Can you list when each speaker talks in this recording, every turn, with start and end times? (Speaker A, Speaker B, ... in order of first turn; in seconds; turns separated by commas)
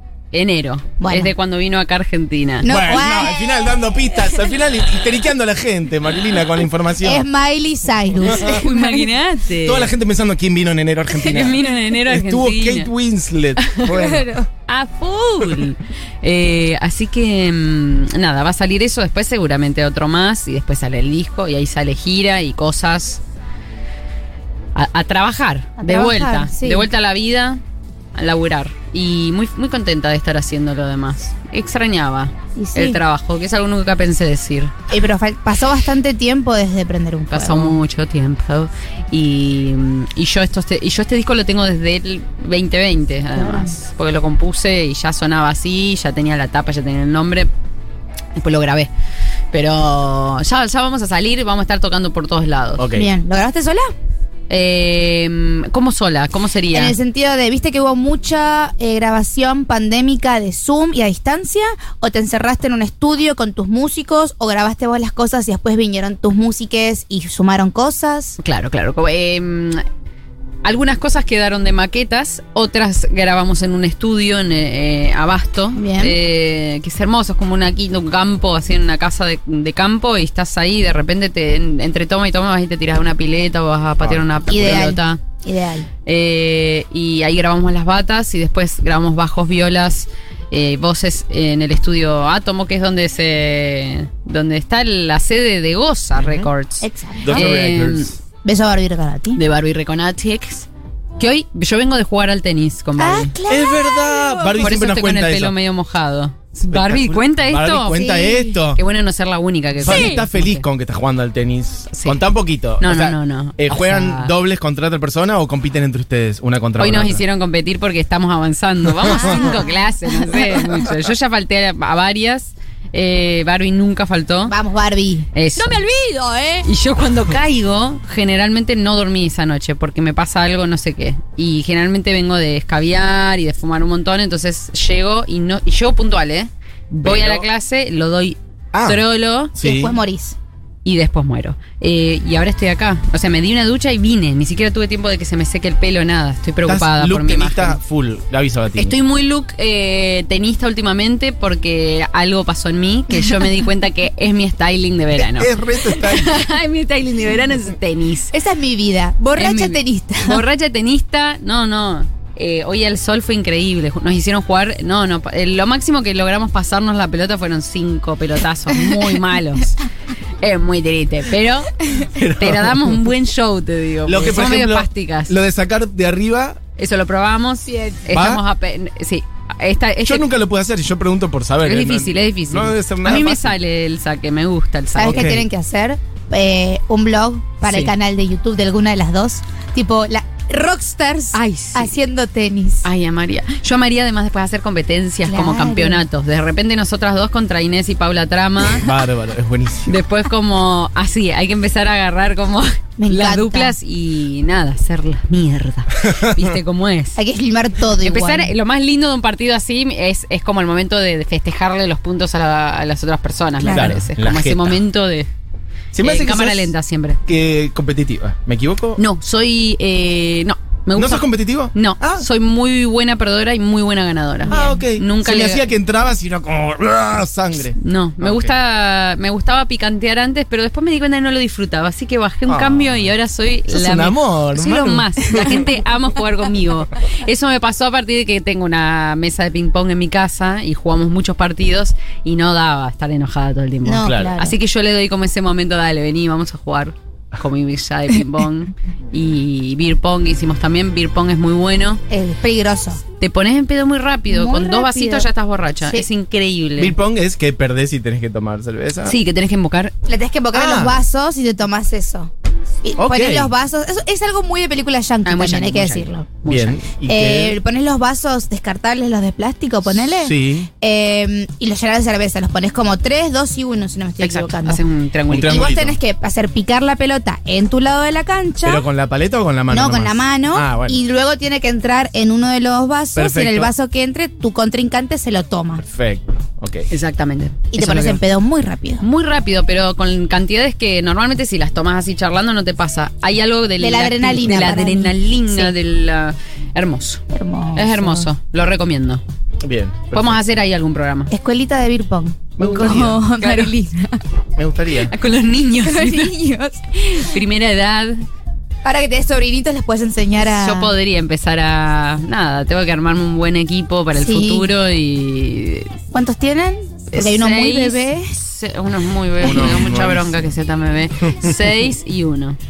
Speaker A: 0.3-2.7, Speaker B: 1.0-1.3, Speaker B: 2.6-3.8, Speaker C: 2.6-7.2, Speaker B: 7.0-9.1, Speaker C: 8.2-8.6, Speaker A: 8.3-9.9, Speaker C: 9.6-14.3, Speaker A: 11.2-12.9, Speaker B: 13.9-14.5, Speaker A: 14.7-23.2, Speaker A: 24.8-27.6, Speaker B: 25.8-26.9, Speaker A: 28.1-34.7, Speaker B: 32.6-33.0, Speaker B: 34.9-37.8, Speaker A: 37.3-47.5, Speaker B: 43.4-43.7, Speaker A: 48.4-48.9, Speaker A: 49.5-52.9, Speaker C: 52.8-53.1, Speaker B: 52.9-53.9, Speaker A: 54.5-57.0, Speaker B: 56.7-68.4, Speaker A: 68.4-69.8, Speaker A: 70.6-85.2, Speaker B: 75.8-76.2, Speaker C: 84.0-84.8, Speaker B: 84.5-85.9, Speaker A: 86.1-98.2, Speaker C: 96.2-96.5, Speaker B: 96.8-97.5, Speaker C: 97.2-98.2, Speaker B: 98.4-99.4, Speaker A: 99.4-103.3, Speaker B: 103.0-104.7, Speaker C: 103.5-105.5, Speaker A: 104.6-108.0, Speaker C: 106.7-108.8, Speaker B: 107.9-108.6, Speaker A: 108.8-110.6, Speaker C: 109.8-117.2, Speaker B: 109.9-110.2, Speaker A: 111.9-112.2, Speaker A: 112.8-114.3, Speaker A: 116.8-124.5, Speaker C: 118.9-119.4, Speaker B: 119.1-120.7, Speaker B: 124.5-126.7, Speaker A: 125.3-125.8, Speaker A: 126.7-139.5, Speaker C: 137.0-137.5, Speaker C: 138.7-139.0, Speaker C: 139.5-140.0, Speaker B: 139.6-140.3, Speaker A: 140.8-147.8, Speaker C: 146.7-149.0, Speaker A: 148.8-158.3, Speaker C: 155.2-156.5, Speaker B: 158.3-160.4, Speaker A: 159.4-169.8, Speaker A: 170.4-171.8, Speaker C: 172.1-173.0, Speaker A: 172.4-175.3, Speaker C: 174.1-176.6, Speaker A: 176.8-180.3, Speaker B: 177.7-178.1, Speaker C: 178.1-178.4, Speaker C: 180.0-183.6, Speaker A: 181.6-185.3, Speaker B: 184.9-192.8, Speaker C: 185.1-185.4, Speaker A: 187.7-187.9, Speaker A: 191.3-191.9, Speaker A: 192.8-198.9, Speaker B: 195.3-196.0, Speaker C: 198.7-199.9, Speaker A: 199.9-207.2, Speaker B: 203.0-203.8, Speaker C: 206.0-206.5, Speaker B: 207.2-208.5, Speaker A: 208.0-215.3, Speaker B: 213.6-213.9, Speaker C: 213.7-214.8, Speaker C: 215.9-216.7, Speaker A: 216.0-217.2, Speaker C: 217.3-219.0, Speaker A: 219.0-225.7, Speaker C: 220.9-222.3, Speaker C: 224.5-228.6, Speaker B: 224.5-224.8, Speaker A: 227.8-252.0, Speaker C: 232.5-233.1, Speaker C: 233.7-235.5, Speaker B: 243.8-244.6, Speaker C: 244.1-244.4, Speaker B: 252.1-253.0, Speaker A: 253.2-256.9, Speaker B: 254.3-255.3, Speaker C: 256.8-259.2, Speaker A: 259.1-259.9, Speaker B: 260.1-262.3, Speaker C: 260.5-261.0, Speaker B: 262.8-266.3, Speaker C: 263.0-263.5, Speaker A: 265.2-266.8, Speaker C: 266.5-267.6, Speaker B: 267.1-274.8, Speaker C: 269.9-270.7, Speaker A: 274.2-275.7, Speaker C: 275.3-276.0, Speaker B: 275.4-278.9, Speaker C: 278.6-281.0, Speaker B: 279.7-285.8, Speaker C: 283.1-283.7, Speaker C: 285.8-286.9, Speaker A: 286.9-288.2, Speaker B: 287.7-289.0, Speaker A: 289.0-297.2, Speaker B: 293.8-295.7, Speaker B: 297.3-298.3, Speaker A: 297.8-299.2, Speaker C: 299.6-300.4, Speaker A: 300.1-301.3, Speaker B: 301.3-304.2, Speaker C: 302.6-303.2, Speaker A: 303.4-303.7, Speaker C: 304.6-305.1, Speaker A: 305.0-306.3, Speaker B: 305.8-307.3, Speaker A: 307.0-308.2, Speaker B: 308.8-310.9, Speaker A: 310.4-315.9, Speaker B: 314.1-314.7, Speaker B: 316.1-318.3, Speaker A: 317.1-322.6, Speaker C: 319.4-320.5, Speaker C: 321.2-321.6